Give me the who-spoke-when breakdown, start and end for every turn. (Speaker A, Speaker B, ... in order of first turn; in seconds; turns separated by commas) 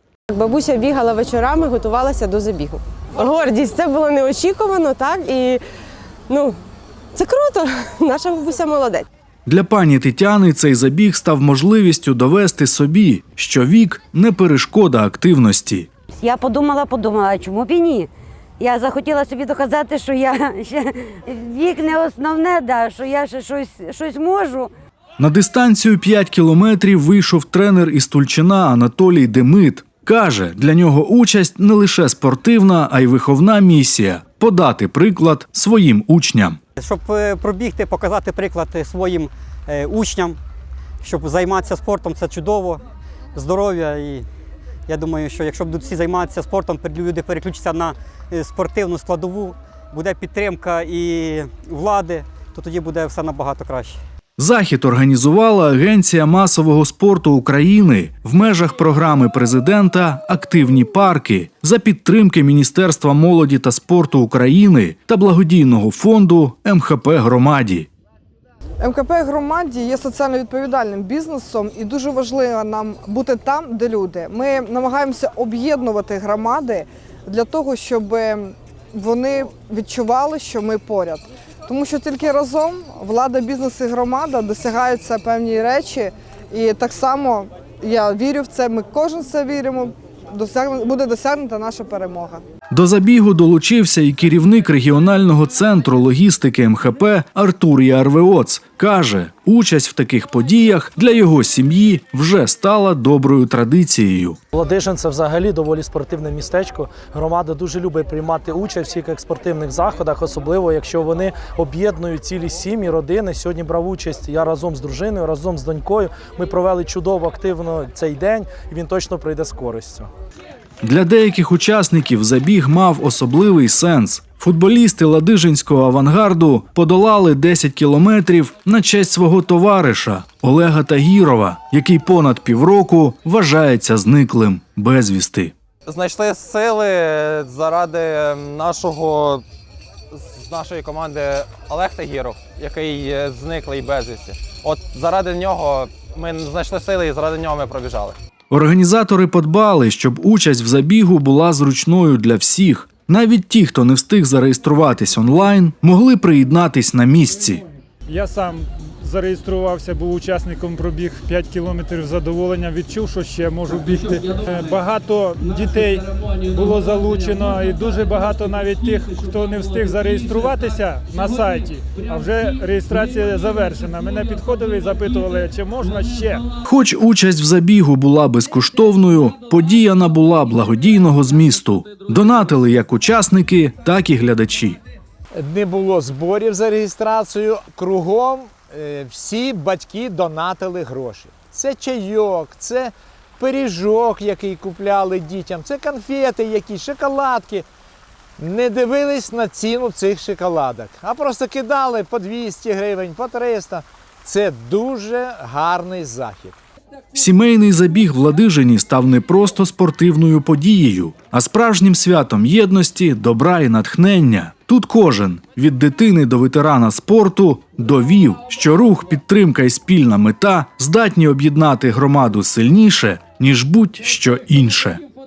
Speaker A: 0.3-5.6, Speaker A: 6.3-6.6, Speaker A: 7.2-9.1, Speaker B: 9.5-15.9, Speaker C: 16.2-18.1, Speaker C: 18.6-24.7, Speaker B: 25.2-36.6, Speaker D: 36.8-40.4, Speaker D: 41.0-42.8, Speaker D: 43.4-44.3, Speaker D: 44.9-54.0, Speaker B: 54.4-67.9, Speaker E: 68.8-92.4, Speaker B: 92.7-104.4, Speaker F: 104.5-120.1, Speaker B: 120.8-135.5, Speaker G: 135.9-139.4, Speaker G: 140.1-148.2, Speaker B: 148.5-157.6, Speaker H: 158.1-176.4, Speaker B: 176.7-184.8, Speaker I: 185.4-197.7, Speaker I: 198.4-206.6, Speaker B: 207.1-225.0